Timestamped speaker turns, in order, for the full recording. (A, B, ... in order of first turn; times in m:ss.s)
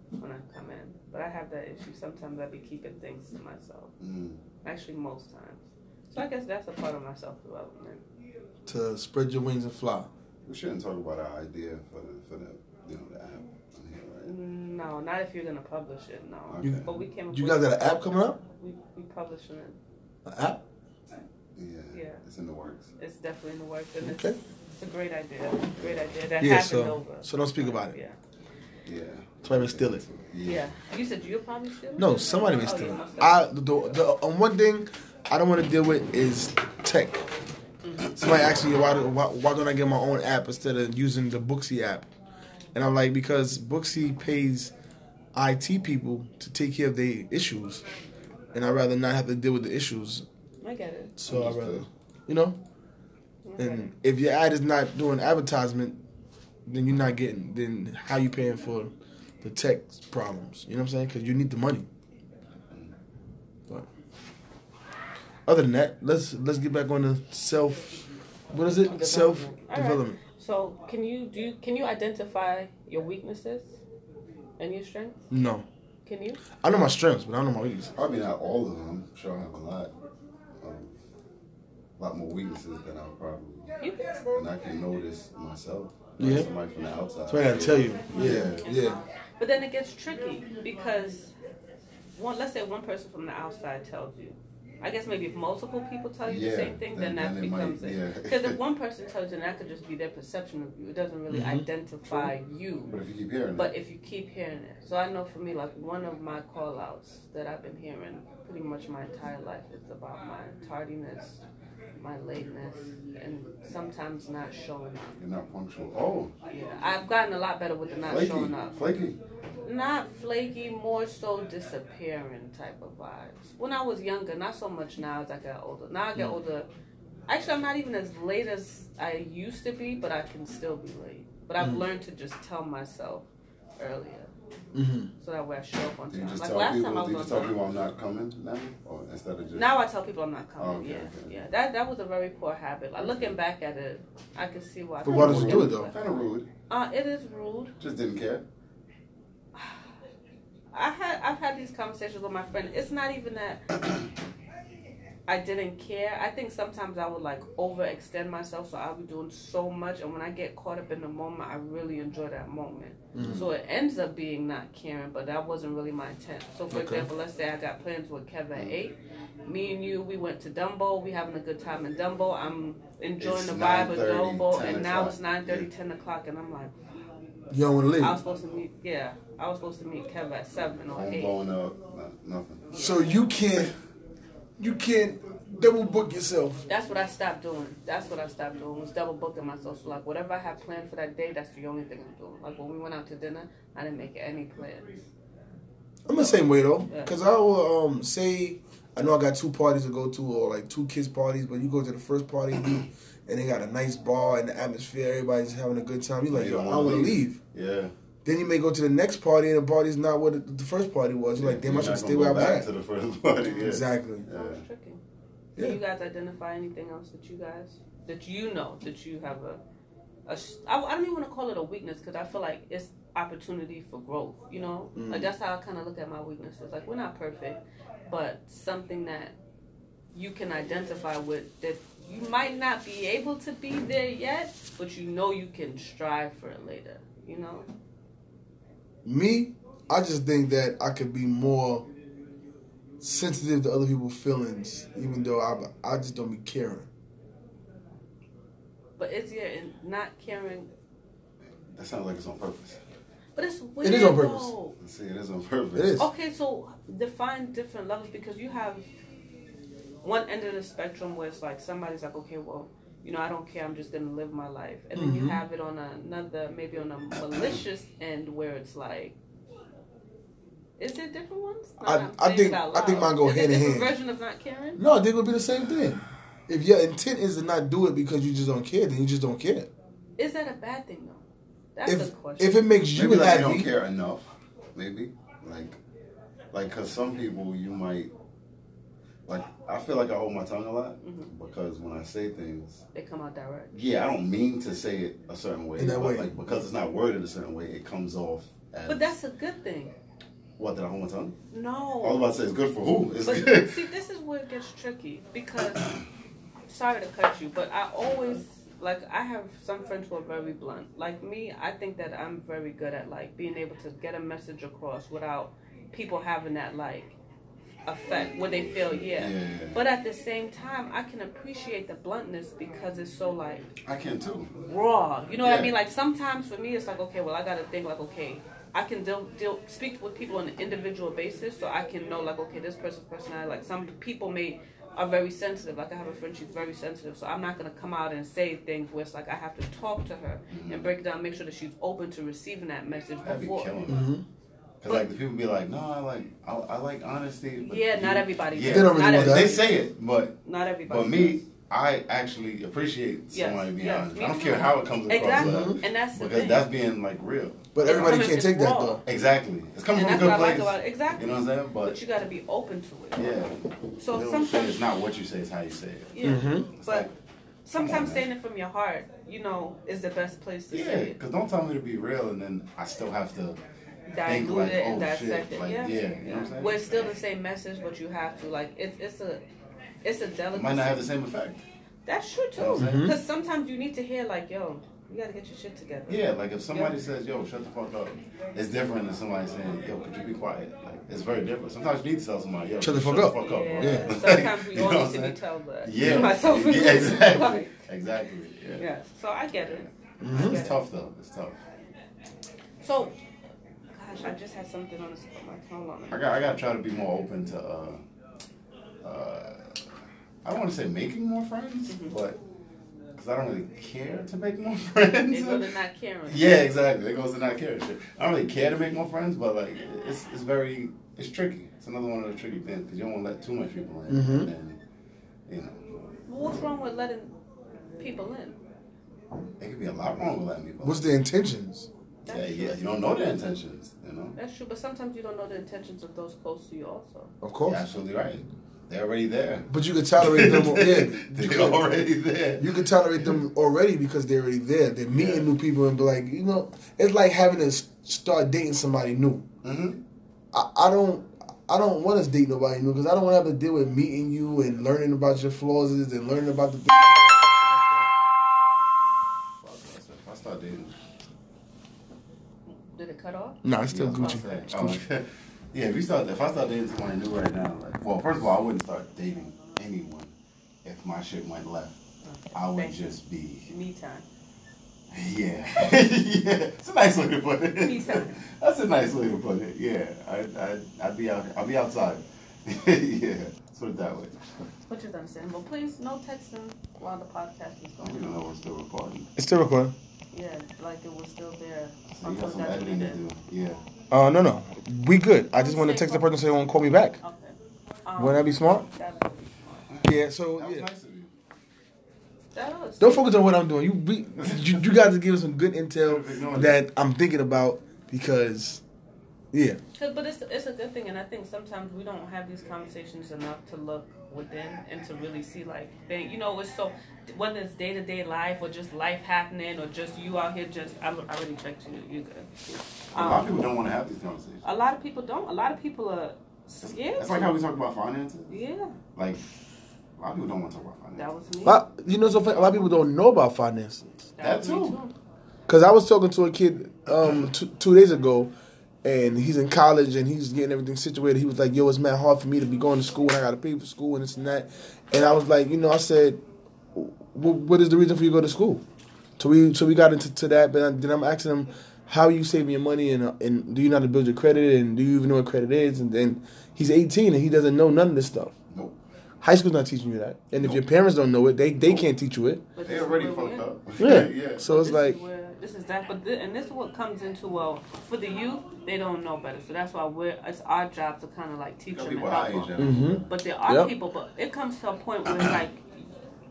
0:00.2-0:03.9 A
0:04.0-0:04.4 B
0:04.6-0:08.0 A
0:08.6-0:10.1 C
0:10.4-0:14.3 B
0:14.2-0:19.8 A
0:16.5-0:16.9 B
0:16.6-0:18.4 C
0:20.2-0:20.6 C
0:21.6-0:22.9 B
0:21.9-0:22.2 A
0:23.0-0:28.2 A
0:24.0-0:24.4 C
0:25.8-0:26.1 B
0:26.4-0:28.0 C
0:28.8-0:30.7 B
0:29.4-0:30.0 C
0:30.4-0:33.4 A
0:32.0-0:37.2 C
0:37.8-0:38.2 A
0:38.2-0:42.1 C
0:42.7-0:44.7 C
0:45.3-0:47.8 C
0:48.5-0:50.2 C
0:50.6-0:51.1 A
0:51.2-0:52.6 C
0:51.2-0:51.8 B
0:53.4-0:53.9 A
0:53.6-0:56.0 C
0:56.6-1:01.9 C
1:05.4-1:07.9 C
1:08.5-1:10.2 C
1:08.8-1:13.8 A
1:14.6-1:15.2 A
1:15.3-1:15.6 C
1:16.0-1:16.4 A
1:16.6-1:17.9 C
1:17.9-1:19.9 B
1:20.6-1:21.0 B
1:22.0-1:23.7 B
1:23.8-1:24.3 A
1:24.3-1:28.6 B
1:26.2-1:26.5 C
1:27.3-1:29.0 C
1:28.1-1:31.3 A
1:32.2-1:42.9 A
1:36.2-1:38.6 B
1:41.3-1:41.6 C
1:42.9-1:43.7 B
1:43.6-1:51.4 A
1:52.0-1:55.1 A
1:55.2-1:56.3 B
1:56.5-1:58.7 A
1:58.0-1:59.2 B
1:59.6-2:06.7 A
2:07.3-2:13.2 A
2:13.8-2:14.3 A
2:14.7-2:15.1 C
2:15.2-2:17.5 A
2:16.1-2:19.7 B
2:19.5-2:26.1 A
2:20.6-2:21.4 B
2:23.0-2:23.3 B
2:25.0-2:25.9 C
2:25.0-2:26.5 B
2:26.7-2:27.7 A
2:27.8-2:28.4 B
2:30.7-2:33.6 A
2:35.3-2:56.7 A
2:43.1-2:43.5 C
2:43.2-2:43.5 B
2:46.7-2:47.1 C
2:53.2-2:55.7 B
2:57.5-2:58.2 C
2:58.0-3:01.3 A
3:00.9-3:02.7 B
3:02.7-3:03.7 C
3:04.6-3:06.6 C
3:06.7-3:15.0 A
3:16.0-3:27.4 C
3:16.1-3:16.4 B
3:26.3-3:27.9 B
3:28.2-3:32.7 C
3:31.4-3:34.6 B
3:33.5-3:34.2 C
3:34.2-3:35.0 A
3:35.6-3:39.6 A
3:40.3-3:49.4 A
3:44.9-3:45.3 C
3:50.1-3:57.7 A
3:59.0-4:01.9 C
4:03.0-4:06.9 C
4:09.0-4:10.7 A
4:11.7-4:12.8 B
4:13.4-4:14.8 A
4:13.8-4:14.5 C
4:14.8-4:16.1 B
4:15.7-4:16.1 C
4:16.0-4:18.8 A
4:20.0-4:29.2 A
4:24.9-4:25.4 C
4:30.8-4:34.8 A
4:31.8-4:33.9 C
4:34.8-4:39.7 C
4:40.2-4:41.2 A
4:41.7-4:42.6 A
4:41.8-4:43.7 C
4:42.9-4:45.8 B
4:46.5-4:48.1 B
4:49.3-4:52.8 B
4:51.0-4:51.3 A
4:52.9-4:53.7 A
4:53.7-4:59.1 B
4:55.8-4:56.3 C
4:58.9-4:59.9 A
5:00.6-5:01.4 B
5:01.5-5:02.2 A
5:02.0-5:03.8 B
5:03.2-5:05.9 A
5:06.7-5:17.1 A
5:17.8-5:23.7 A
5:18.1-5:19.8 B
5:23.8-5:24.5 B
5:24.6-5:43.7 A
5:25.4-5:25.7 B
5:40.5-5:40.9 B
5:43.2-5:44.0 B
5:43.9-5:44.2 C
5:44.8-5:58.2 B
5:47.6-5:49.8 A
5:48.7-5:49.5 C
5:50.4-5:51.4 A
5:53.3-5:56.6 A
5:55.3-5:55.8 C
5:57.7-5:59.0 C
5:57.8-5:59.0 A
5:59.0-6:02.0 B
5:59.9-6:01.3 A
6:01.8-6:03.3 A
6:03.2-6:06.1 B
6:04.0-6:04.8 A
6:06.1-6:07.1 A
6:06.2-6:06.7 C
6:06.8-6:07.1 B
6:07.6-6:11.2 A
6:07.7-6:08.2 B
6:10.7-6:13.6 B
6:14.1-6:19.4 A
6:14.2-6:17.1 B
6:20.0-6:21.1 A
6:20.5-6:21.6 B
6:22.0-6:26.9 A
6:22.6-6:23.1 B
6:22.7-6:23.2 C
6:26.1-6:38.8 B
6:32.8-6:34.1 C
6:33.4-6:37.8 A
6:36.0-6:36.3 C
6:38.8-6:40.8 A
6:39.6-6:41.6 B
6:40.2-6:40.6 C
6:42.8-6:43.1 A
6:43.9-6:46.4 A
6:46.1-6:48.0 B
6:49.0-6:49.7 B
6:50.4-6:52.4 B
6:51.9-6:52.2 A
6:53.2-6:55.7 B
6:55.3-6:56.6 A
6:56.3-7:04.8 B
7:04.1-7:04.5 C
7:05.5-7:05.8 B
7:06.3-7:07.3 A
7:08.0-7:08.6 A
7:09.6-7:11.0 B
7:10.8-7:11.9 C
7:12.2-7:13.0 A
7:12.3-7:14.4 B
7:14.4-7:17.3 A
7:17.4-7:17.8 C
7:17.6-7:22.7 B
7:19.7-7:21.9 C
7:22.6-7:29.4 C
7:25.1-7:25.5 B
7:29.6-7:30.0 B
7:30.5-7:38.1 C
7:39.6-7:41.0 B
7:42.8-7:43.6 A
7:43.6-7:45.0 C
7:43.9-7:50.3 B
7:50.8-7:52.0 B
7:52.2-7:53.1 A
7:52.5-7:53.7 B
7:53.7-7:54.2 A
7:55.1-8:04.3 B
7:57.8-7:58.4 A
8:04.9-8:08.4 A
8:08.0-8:09.3 B
8:09.4-8:09.9 C
8:10.3-8:13.2 A
8:12.1-8:13.8 B
8:14.1-8:17.2 C
8:15.5-8:16.3 A
8:17.2-8:19.9 A
8:18.2-8:18.8 C
8:19.9-8:21.3 B
8:20.0-8:20.9 C
8:22.5-8:23.3 A
8:23.0-8:28.8 C
8:24.4-8:24.8 B
8:26.0-8:26.8 B
8:29.5-8:29.8 C
8:29.9-8:43.7 A
8:43.1-8:44.6 B
8:44.6-8:47.6 A
8:46.8-8:48.6 B
8:48.5-8:48.9 A
8:49.1-8:49.4 B
8:50.2-8:51.3 B
8:51.2-8:51.8 A
8:51.6-8:54.1 C
8:52.3-8:53.0 B
8:54.4-8:55.1 A
8:54.4-8:55.0 B
8:55.7-8:58.5 C
8:59.0-9:06.4 C
9:06.9-9:08.8 C
9:09.4-9:18.5 C
9:18.7-9:19.0 B
9:19.4-9:22.6 C
9:20.6-9:20.8 B
9:22.7-9:23.6 A
9:22.8-9:24.7 B
9:24.0-9:25.2 C
9:24.6-9:32.7 A
9:31.9-9:33.3 B
9:32.8-9:33.9 C
9:33.2-9:36.1 A
9:35.3-9:35.6 B